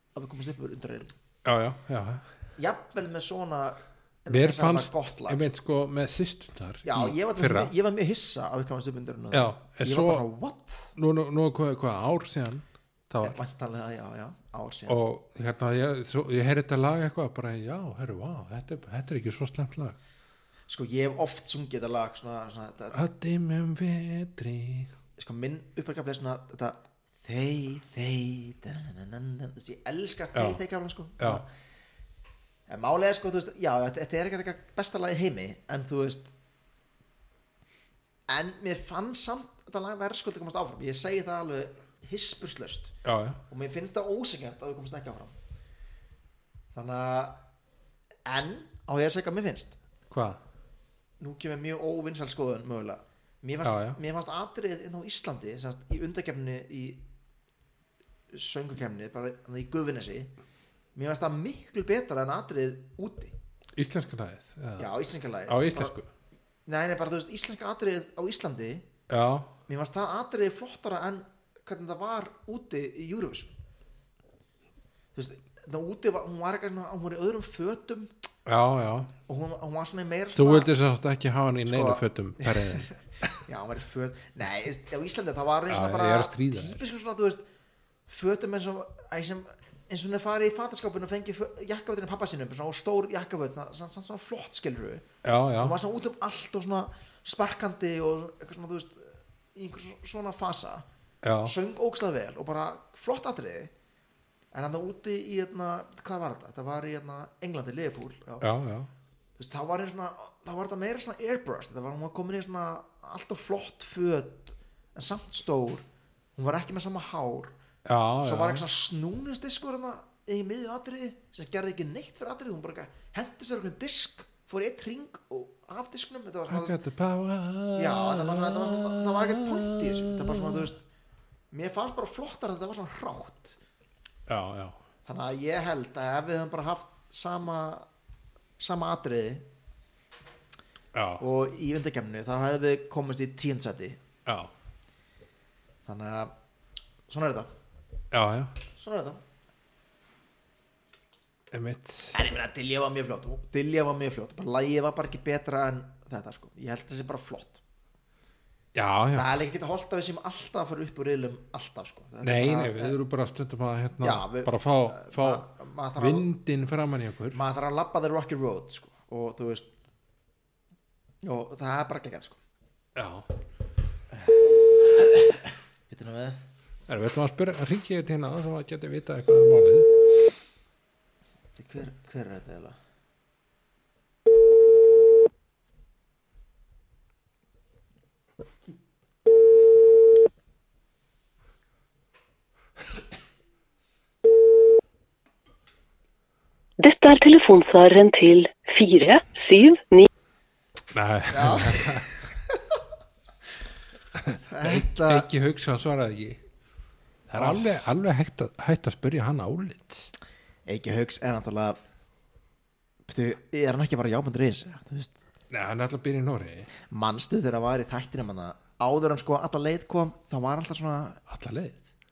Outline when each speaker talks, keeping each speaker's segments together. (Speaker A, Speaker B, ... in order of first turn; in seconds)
Speaker A: 0.1-1.1, 2.6-5.4, 6.8-10.9, 13.2-15.0, 20.7-23.0, 25.2-31.5, 32.7-36.3, 38.3-43.0, 43.5-45.4, 46.7-47.4, 48.3-49.8, 51.2-57.0, 58.3-60.3, 61.0-63.4, 64.8-66.0, 66.7-68.9, 69.7-73.6, 75.2-78.1, 79.3-80.7, 81.7-87.4, 88.1-95.1, 95.6-100.9, 101.4-103.7, 104.5-108.5, 109.4-115.8, 116.4-117.5, 118.2-126.8, 127.8-130.8, 131.5-133.6, 135.1-137.9, 138.6-139.5, 141.2-144.0, 145.9-146.3, 147.1-147.5, 148.8-149.2, 152.1-157.6, 159.1-163.0, 164.0-166.3, 167.3-169.7, 171.2-172.4, 174.1-174.4, 175.9-176.4, 181.6-182.8, 201.3-202.6, 204.5-205.3, 207.3-207.7, 210.7-211.8, 213.1-215.2, 216.9-221.2
Speaker B: 1.4-2.3, 4.3-7.7, 9.3-10.2, 11.0-13.4, 14.9-20.0, 22.9-24.9, 30.3-30.6, 31.2-31.4, 43.0-43.4, 50.1-50.4, 53.6-54.0, 63.8-64.9, 65.5-66.1, 69.1-69.5, 78.5-79.1, 80.3-82.9, 85.7-86.8, 95.2-95.8, 101.2-101.5, 108.4-108.9, 117.8-118.6, 126.5-130.7, 134.3-134.8, 140.9-141.2, 144.3-144.5, 148.1-148.6, 151.5-152.3, 158.7-159.3, 162.2-167.4, 172.9-173.3, 176.9-179.9, 200.9-202.3, 204.2-206.4, 207.3-210.1, 215.5-216.7, 221.3-221.9
Speaker C: 196.8-200.1